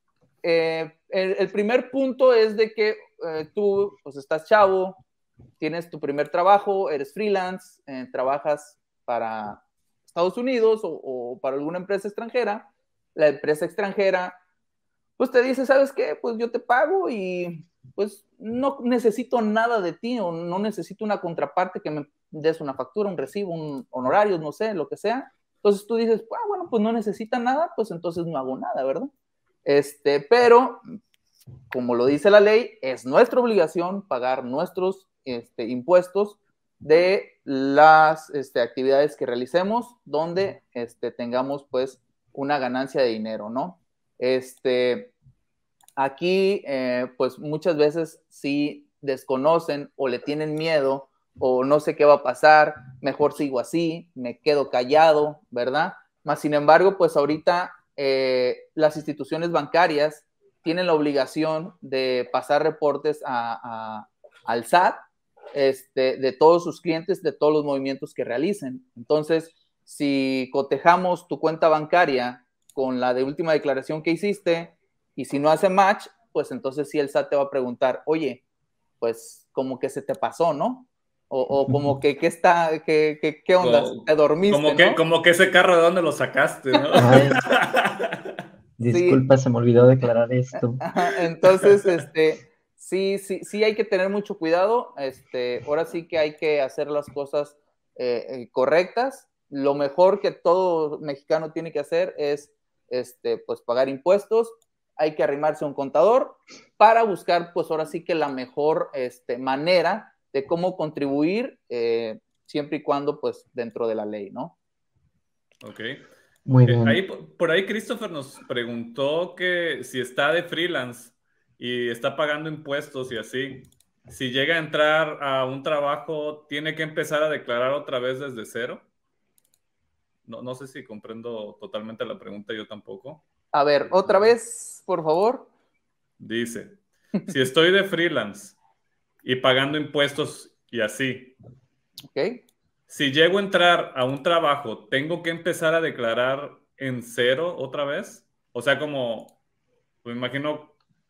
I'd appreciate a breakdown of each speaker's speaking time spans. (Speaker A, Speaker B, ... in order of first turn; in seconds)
Speaker A: 0.4-5.0, 5.6-14.4, 15.2-29.1, 29.6-30.8, 31.7-45.1, 46.0-65.0, 65.5-78.4, 79.0-85.0, 88.9-89.2, 90.8-114.5, 133.5-135.5, 142.1-142.4
Speaker B: 83.6-88.2, 115.6-116.0, 116.6-128.8, 130.3-133.2, 133.9-134.3, 136.2-138.6, 139.2-141.4, 142.9-149.4, 150.0-150.8
Speaker C: 87.0-87.4, 88.8-90.8, 116.5-117.0